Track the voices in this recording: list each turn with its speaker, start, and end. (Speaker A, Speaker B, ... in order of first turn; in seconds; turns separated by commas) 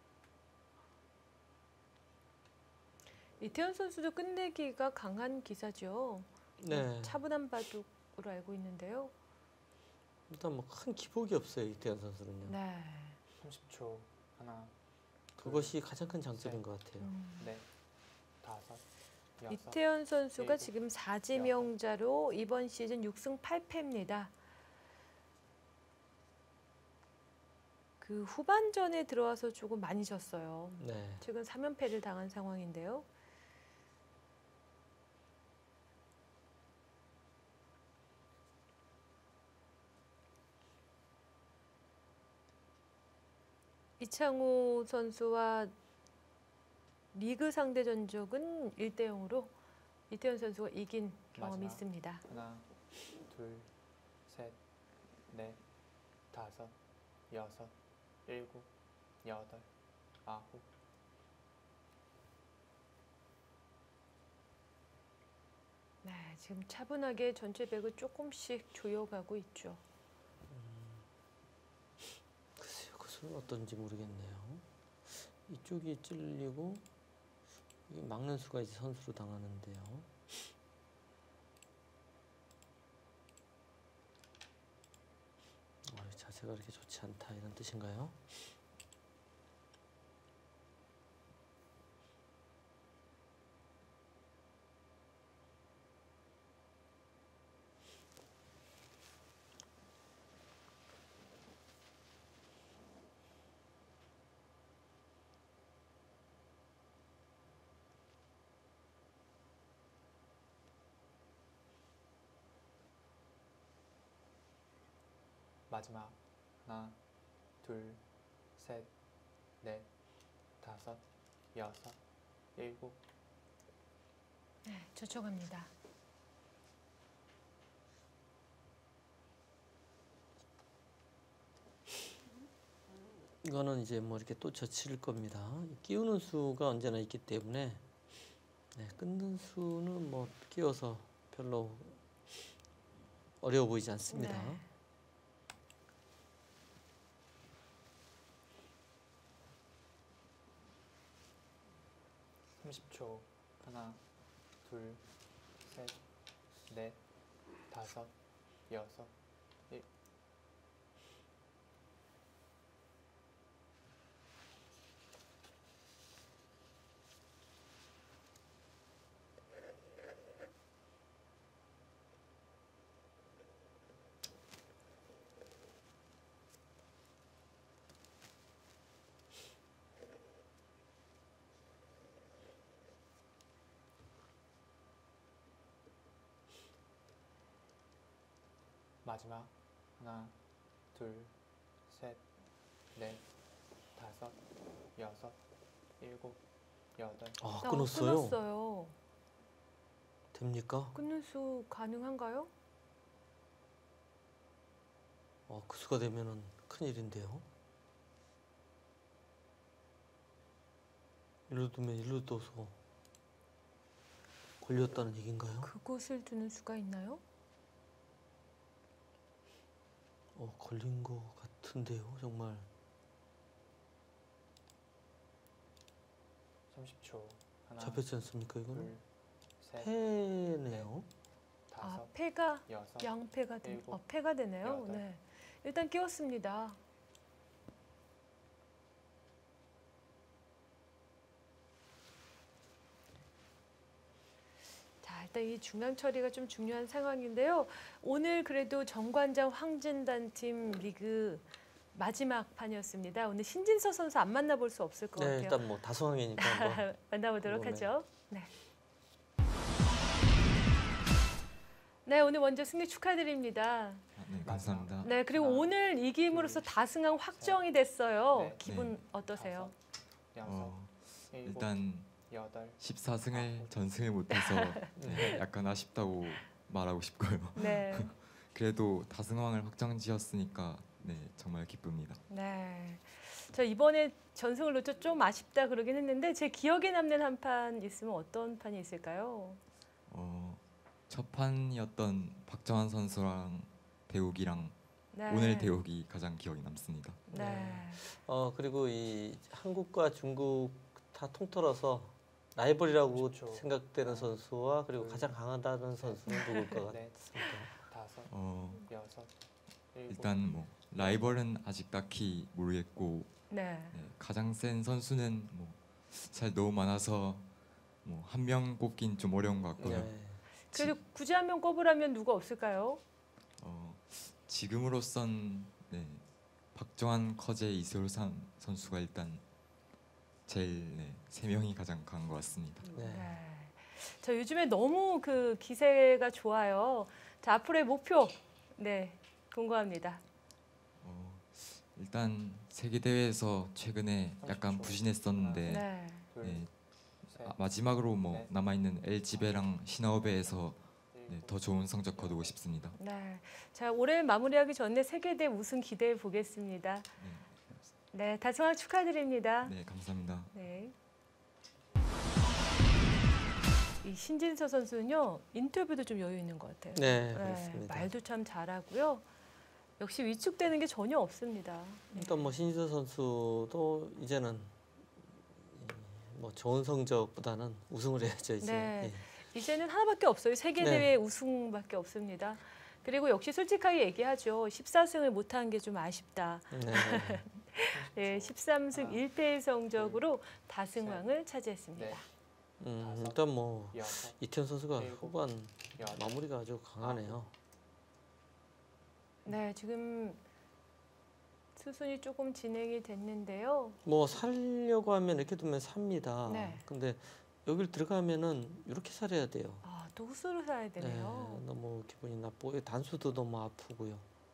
Speaker A: 3.4-9.1, Speaker B: 6.6-7.2, Speaker B: 10.3-12.6, Speaker A: 12.4-13.2, Speaker C: 13.4-14.7, Speaker C: 15.3-16.6, Speaker B: 15.4-17.1, Speaker A: 17.0-17.5, Speaker C: 17.4-17.7, Speaker C: 18.4-18.8, Speaker C: 19.4-19.8, Speaker A: 19.5-24.3, Speaker C: 20.4-20.7, Speaker C: 21.3-21.7, Speaker A: 28.0-33.1, Speaker B: 30.8-31.2, Speaker A: 44.0-45.7, Speaker A: 47.1-49.5, Speaker A: 50.1-52.2, Speaker C: 51.3-52.7, Speaker C: 53.3-53.7, Speaker C: 54.2-54.6, Speaker C: 55.3-55.6, Speaker C: 56.3-56.8, Speaker C: 57.3-57.7, Speaker C: 58.2-58.7, Speaker C: 59.2-59.7, Speaker C: 60.2-60.7, Speaker A: 66.0-69.8, Speaker B: 70.5-71.0, Speaker B: 72.5-76.8, Speaker B: 77.9-80.1, Speaker B: 85.8-88.2, Speaker C: 115.7-117.0, Speaker C: 117.6-118.0, Speaker C: 118.5-118.9, Speaker C: 119.6-119.9, Speaker C: 120.6-121.0, Speaker C: 121.5-122.0, Speaker C: 122.5-123.0, Speaker A: 124.6-125.7, Speaker B: 133.4-137.8, Speaker B: 138.7-142.0, Speaker B: 143.4-144.6, Speaker A: 144.1-144.6, Speaker C: 152.6-154.0, Speaker C: 154.6-155.0, Speaker C: 155.6-156.0, Speaker C: 156.7-157.0, Speaker C: 157.7-158.1, Speaker C: 158.7-159.1, Speaker C: 189.0-190.3, Speaker C: 190.9-191.3, Speaker C: 191.8-192.2, Speaker C: 192.9-193.2, Speaker C: 193.9-194.4, Speaker C: 194.9-195.4, Speaker C: 196.0-196.4, Speaker C: 196.9-197.5, Speaker B: 197.4-198.4, Speaker A: 197.6-198.9, Speaker B: 200.3-200.9, Speaker A: 200.9-202.5, Speaker B: 205.5-207.4, Speaker B: 211.5-212.8, Speaker B: 214.6-215.7, Speaker A: 215.6-217.2, Speaker B: 220.3-222.7, Speaker C: 226.7-228.1, Speaker B: 227.8-228.9, Speaker C: 228.7-229.0, Speaker C: 229.6-230.9, Speaker B: 229.8-231.1, Speaker C: 231.7-232.1, Speaker A: 231.8-236.8, Speaker C: 232.7-234.0, Speaker C: 234.6-235.0, Speaker A: 245.0-255.7, Speaker B: 255.2-256.9, Speaker A: 256.4-258.5, Speaker B: 257.4-257.9, Speaker A: 262.1-264.0, Speaker D: 264.1-265.1, Speaker C: 264.4-266.7, Speaker A: 265.0-269.7, Speaker C: 267.3-267.6, Speaker C: 268.2-268.6, Speaker D: 268.6-269.0, Speaker C: 269.1-269.8, Speaker C: 270.3-274.0, Speaker D: 270.4-282.2, Speaker A: 274.3-274.9, Speaker B: 275.0-275.4, Speaker A: 277.5-278.1, Speaker A: 282.3-289.6, Speaker D: 290.1-297.3, Speaker A: 295.1-295.7, Speaker A: 297.3-298.0, Speaker B: 297.3-307.7, Speaker C: 302.8-309.3, Speaker A: 306.3-306.8, Speaker D: 308.3-308.9, Speaker C: 309.9-311.4, Speaker D: 310.1-317.5, Speaker A: 313.5-313.9, Speaker D: 318.0-321.0, Speaker C: 319.8-320.1, Speaker B: 319.8-320.4, Speaker A: 320.6-323.0, Speaker D: 323.6-329.4, Speaker D: 330.4-332.9, Speaker B: 332.8-333.4, Speaker A: 333.1-340.2, Speaker D: 341.0-346.7, Speaker C: 344.4-346.7, Speaker A: 345.6-346.3, Speaker C: 347.2-348.5, Speaker D: 347.2-353.0, Speaker C: 349.3-352.5, Speaker A: 352.9-357.1, Speaker D: 357.2-357.9, Speaker A: 358.1-359.7, Speaker D: 359.6-360.5, Speaker A: 360.5-360.9, Speaker A: 364.0-369.2, Speaker B: 366.9-368.1, Speaker A: 370.0-372.5, Speaker B: 372.1-379.2, Speaker A: 378.6-392.2, Speaker B: 380.8-381.1, Speaker B: 386.7-387.4, Speaker C: 387.9-389.2, Speaker C: 389.9-390.2, Speaker C: 391.0-391.2, Speaker C: 391.9-392.2, Speaker B: 392.8-397.5, Speaker C: 393.0-394.4, Speaker C: 394.9-396.4, Speaker C: 397.0-397.5, Speaker A: 399.4-400.4, Speaker A: 401.8-404.0, Speaker B: 404.0-409.8, Speaker A: 406.4-406.8, Speaker A: 409.8-411.6, Speaker B: 411.0-414.2